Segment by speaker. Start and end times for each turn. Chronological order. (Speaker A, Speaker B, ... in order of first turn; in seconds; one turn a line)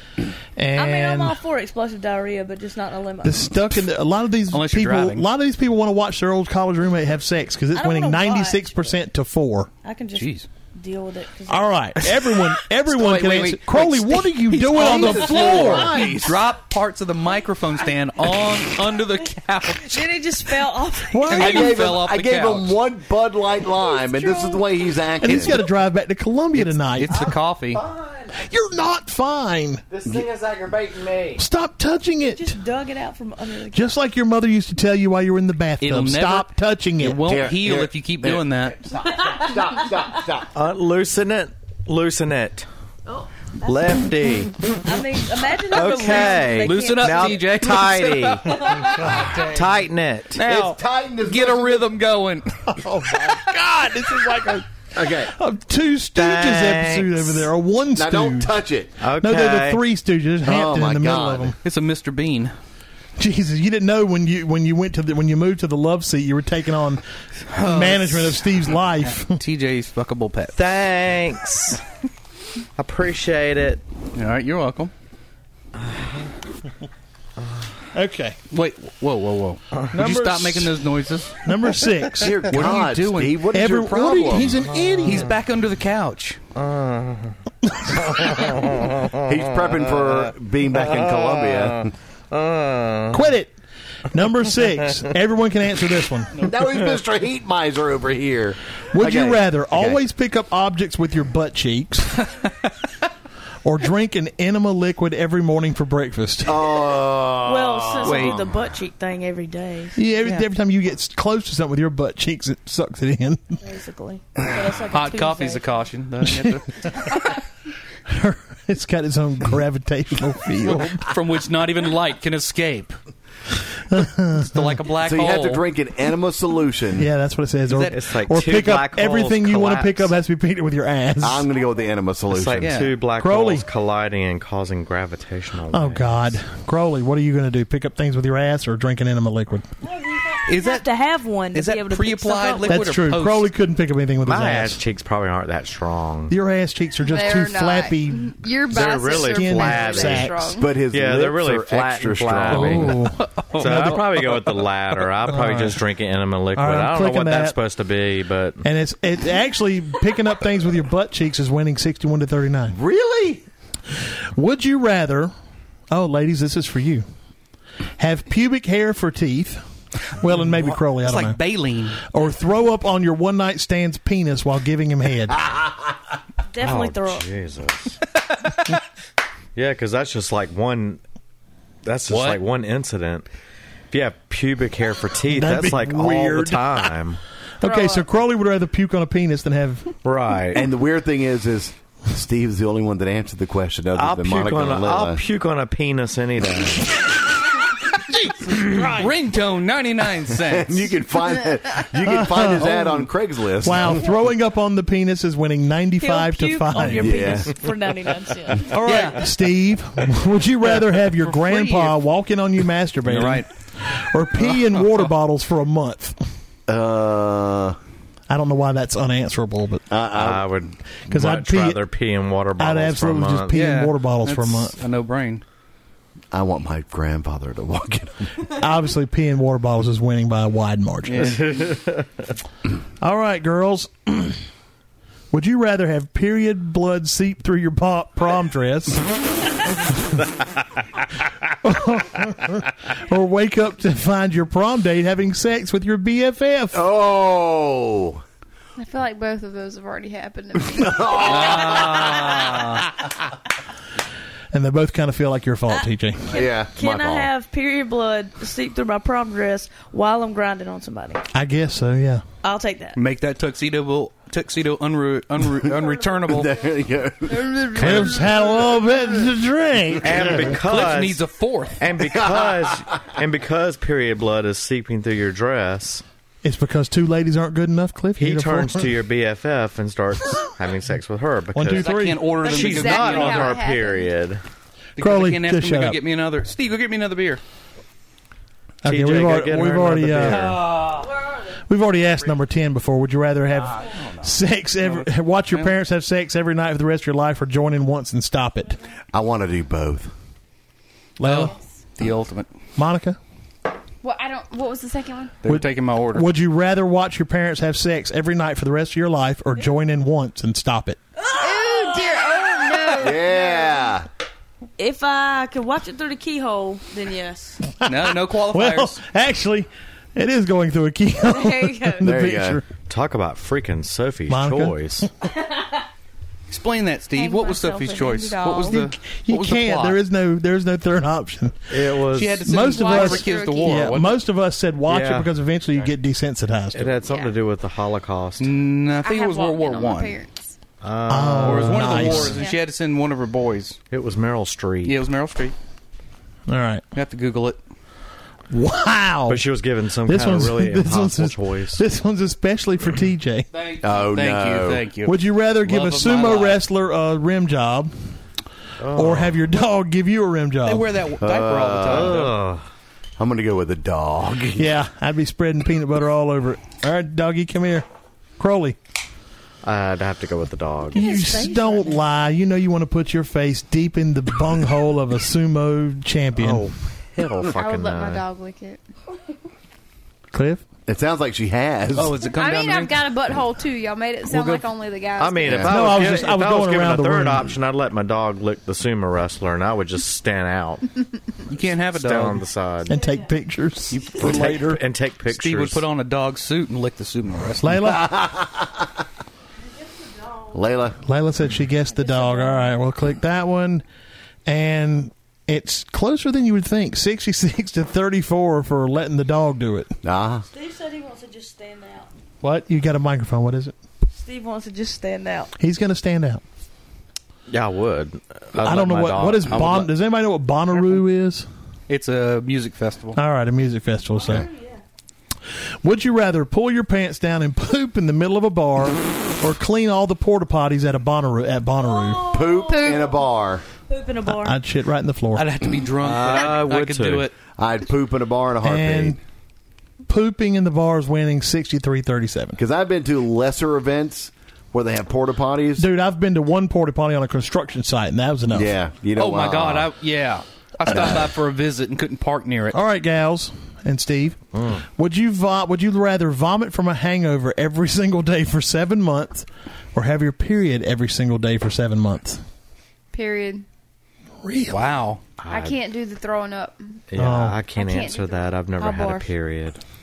Speaker A: 0.6-1.4
Speaker B: 0.8-3.5
Speaker A: 3.2-9.7
Speaker C: 4.5-5.3
Speaker B: 7.7-8.7
Speaker B: 9.8-11.7
Speaker C: 10.1-10.5
Speaker A: 11.5-15.9
Speaker C: 12.8-20.2
Speaker D: 14.7-16.4
Speaker B: 19.7-21.7
Speaker A: 21.1-21.8
Speaker C: 21.3-22.8
Speaker D: 21.3-25.6
Speaker B: 23.6-24.6
Speaker A: 25.2-27.3
Speaker C: 26.5-27.8
Speaker E: 27.7-28.4
Speaker A: 28.3-29.8
Speaker E: 29.9-31.4
Speaker A: 31.4-32.6
Speaker B: 32.3-33.9
Speaker A: 33.7-37.3
Speaker C: 35.8-38.8
Speaker D: 37.2-38.5
Speaker D: 39.0-40.5
Speaker E: 40.5-42.7
Speaker B: 43.1-44.0
Speaker E: 43.6-44.8
Speaker B: 44.8-47.5
Speaker E: 45.6-48.6
Speaker C: 46.0-49.2
Speaker E: 49.1-50.4
Speaker C: 50.3-52.7
Speaker D: 50.4-51.9
Speaker A: 52.7-58.5
Speaker D: 54.9-55.3
Speaker E: 56.1-57.5
Speaker D: 58.0-59.0
Speaker E: 59.0-59.8
Speaker A: 59.2-61.5
Speaker D: 60.4-61.5
Speaker C: 61.6-62.5
Speaker A: 63.2-69.4
Speaker C: 67.5-68.4
Speaker C: 69.2-70.5
Speaker E: 70.5-71.8
Speaker E: 72.8-73.8
Speaker C: 74.1-74.9
Speaker E: 75.8-76.2
Speaker A: 77.9-78.4
Speaker C: 78.5-81.4
Speaker A: 79.9-80.8
Speaker A: 81.4-82.5
Speaker D: 82.2-84.6
Speaker C: 82.4-83.5
Speaker A: 83.5-85.3
Speaker C: 85.0-86.4
Speaker E: 86.5-90.2
Speaker D: 89.2-91.9
Speaker E: 90.8-93.2
Speaker A: 93.1-93.5
Speaker A: 94.1-96.4
Speaker D: 96.3-100.0
Speaker A: 98.9-102.2
Speaker A: 103.6-106.6
Speaker D: 106.4-108.5
Speaker B: 107.4-110.0
Speaker C: 108.0-108.4
Speaker A: 109.9-113.6
Speaker B: 113.6-115.7
Speaker C: 114.8-116.9
Speaker A: 116.2-117.2
Speaker A: 118.1-121.1
Speaker C: 120.6-123.0
Speaker A: 123.9-124.8
Speaker C: 124.3-125.6
Speaker D: 125.0-127.1
Speaker A: 127.0-131.4
Speaker C: 127.7-127.9
Speaker E: 127.9-130.1
Speaker D: 131.2-132.7
Speaker E: 132.3-136.3
Speaker C: 132.6-133.0
Speaker A: 133.1-133.6
Speaker A: 135.7-139.7
Speaker B: 139.8-142.8
Speaker C: 140.5-140.9
Speaker C: 141.5-143.5
Speaker A: 142.7-144.8
Speaker E: 144.2-146.3
Speaker A: 146.3-148.4
Speaker F: 147.0-150.7
Speaker E: 148.7-150.3
Speaker A: 149.1-150.5
Speaker D: 150.6-153.0
Speaker E: 150.8-153.0
Speaker A: 152.5-153.2
Speaker C: 153.1-154.7
Speaker E: 153.5-158.6
Speaker A: 155.3-155.8
Speaker A: 156.5-157.6
Speaker A: 158.6-162.8
Speaker D: 162.7-163.4
Speaker A: 164.3-165.3
Speaker A: 165.9-167.0
Speaker A: 168.0-171.4
Speaker C: 170.5-172.0
Speaker A: 172.0-175.5
Speaker B: 176.5-177.2
Speaker E: 176.6-178.0
Speaker E: 179.6-181.0
Speaker E: 181.8-183.2
Speaker C: 182.1-182.4
Speaker E: 183.9-187.2
Speaker A: 185.3-186.9
Speaker A: 187.6-189.9
Speaker F: 187.6-188.0
Speaker E: 190.0-190.7
Speaker D: 190.5-195.2
Speaker E: 193.9-197.1
Speaker A: 198.8-199.1
Speaker C: 198.8-201.0
Speaker D: 200.4-204.0
Speaker A: 202.0-202.9
Speaker A: 203.6-207.3
Speaker B: 206.0-208.8
Speaker D: 207.0-207.5
Speaker A: 208.7-216.2
Speaker C: 208.8-209.3
Speaker C: 210.6-212.0
Speaker C: 213.0-213.5
Speaker C: 214.4-215.0
Speaker D: 216.7-217.8
Speaker A: 218.3-219.8
Speaker D: 219.9-220.5
Speaker E: 220.1-223.6
Speaker A: 221.1-221.8
Speaker A: 222.6-224.8
Speaker C: 223.5-225.4
Speaker D: 226.3-228.4
Speaker A: 228.5-231.4
Speaker C: 231.0-231.4
Speaker E: 231.2-232.3
Speaker A: 233.0-234.4
Speaker A: 235.3-239.0
Speaker A: 241.6-246.8
Speaker D: 246.7-248.2
Speaker F: 248.8-252.6
Speaker D: 250.7-252.5
Speaker C: 251.2-252.8
Speaker A: 254.5-256.3
Speaker B: 255.7-261.2
Speaker D: 256.3-257.3
Speaker A: 261.3-262.2
Speaker B: 262.4-263.0
Speaker C: 262.9-266.5
Speaker D: 266.2-268.1
Speaker F: 267.4-268.4
Speaker A: 267.7-270.5
Speaker E: 270.0-271.2
Speaker C: 270.5-271.9
Speaker E: 271.8-276.0
Speaker D: 272.0-272.8
Speaker A: 276.4-278.9
Speaker E: 278.2-284.4
Speaker A: 281.5-282.3
Speaker C: 281.7-283.6
Speaker F: 282.4-284.1
Speaker C: 285.0-287.4
Speaker A: 285.0-286.0
Speaker A: 288.8-290.6
Speaker E: 288.9-290.6
Speaker C: 290.2-291.1
Speaker A: 291.7-298.8
Speaker C: 293.8-295.7
Speaker D: 299.1-300.1
Speaker A: 301.2-301.5
Speaker C: 301.2-302.5
Speaker A: 302.8-303.2
Speaker F: 304.0-305.4
Speaker C: 305.4-306.3
Speaker A: 305.5-311.0
Speaker F: 311.3-313.9
Speaker B: 311.3-312.0
Speaker D: 313.0-314.1
Speaker B: 314.8-317.6
Speaker A: 317.8-322.6
Speaker C: 317.8-319.0
Speaker F: 321.2-322.1
Speaker D: 322.0-322.6
Speaker E: 322.9-325.1
Speaker A: 324.3-325.1
Speaker C: 326.5-330.0
Speaker F: 327.1-328.9
Speaker A: 329.0-331.8
Speaker E: 331.7-332.5
Speaker C: 332.1-334.2
Speaker A: 332.4-337.0
Speaker F: 332.7-333.9
Speaker E: 334.9-335.9
Speaker E: 336.7-338.5
Speaker F: 337.0-337.4
Speaker C: 338.4-340.2
Speaker F: 339.0-340.5
Speaker E: 340.8-342.3
Speaker A: 341.1-342.4
Speaker C: 341.4-343.8
Speaker F: 342.3-342.6
Speaker E: 343.9-345.1
Speaker C: 344.8-345.5
Speaker A: 346.5-346.8
Speaker C: 346.9-347.6
Speaker A: 348.5-349.4
Speaker E: 349.3-351.8
Speaker A: 350.0-353.5
Speaker C: 353.5-356.6
Speaker D: 353.8-354.9
Speaker A: 355.0-357.9
Speaker E: 358.8-359.4
Speaker A: 358.9-360.9
Speaker C: 360.6-362.4
Speaker D: 361.2-362.2
Speaker E: 361.9-362.6
Speaker D: 363.2-364.8
Speaker A: 364.6-367.8
Speaker A: 368.4-368.8
Speaker E: 369.6-371.1
Speaker A: 370.9-376.7
Speaker B: 370.9-372.0
Speaker E: 376.3-378.2
Speaker F: 377.4-378.8
Speaker A: 380.3-380.6
Speaker D: 380.9-382.2
Speaker C: 381.9-383.0
Speaker F: 382.4-386.1
Speaker E: 385.2-390.9
Speaker D: 385.4-385.7
Speaker A: 385.6-387.5
Speaker C: 391.5-392.4
Speaker E: 391.9-393.0
Speaker A: 392.9-394.8
Speaker B: 392.9-393.3
Speaker C: 393.9-397.8
Speaker E: 394.2-395.8
Speaker A: 397.6-398.1
Speaker D: 397.9-398.9
Speaker B: 399.9-400.5
Speaker D: 400.5-401.0
Speaker A: 401.0-403.8
Speaker B: 401.9-402.7
Speaker A: 404.4-409.9
Speaker D: 410.0-410.4
Speaker B: 410.5-412.1
Speaker A: 412.4-413.7
Speaker B: 414.1-415.5
Speaker A: 415.6-416.4
Speaker E: 417.5-419.9
Speaker A: 418.6-421.4
Speaker C: 421.9-423.2
Speaker A: 423.1-424.4
Speaker B: 424.1-424.8
Speaker A: 425.8-432.3
Speaker B: 431.8-433.2
Speaker D: 432.3-433.6
Speaker F: 432.7-433.1
Speaker B: 433.9-434.6
Speaker A: 434.3-435.5
Speaker C: 435.3-437.3
Speaker E: 436.0-437.3
Speaker D: 437.6-439.2
Speaker A: 438.6-439.2
Speaker A: 440.1-442.6
Speaker D: 442.6-445.9
Speaker A: 445.8-448.7
Speaker D: 448.5-449.9
Speaker C: 449.1-452.8
Speaker A: 450.9-451.1
Speaker D: 450.9-451.3
Speaker A: 452.7-462.4
Speaker E: 454.6-454.8
Speaker F: 463.1-463.6
Speaker A: 464.4-464.9
Speaker C: 464.7-465.2
Speaker E: 465.4-465.8
Speaker F: 465.5-467.0
Speaker E: 467.1-469.8
Speaker A: 467.2-467.6
Speaker F: 467.7-468.6
Speaker B: 468.8-469.3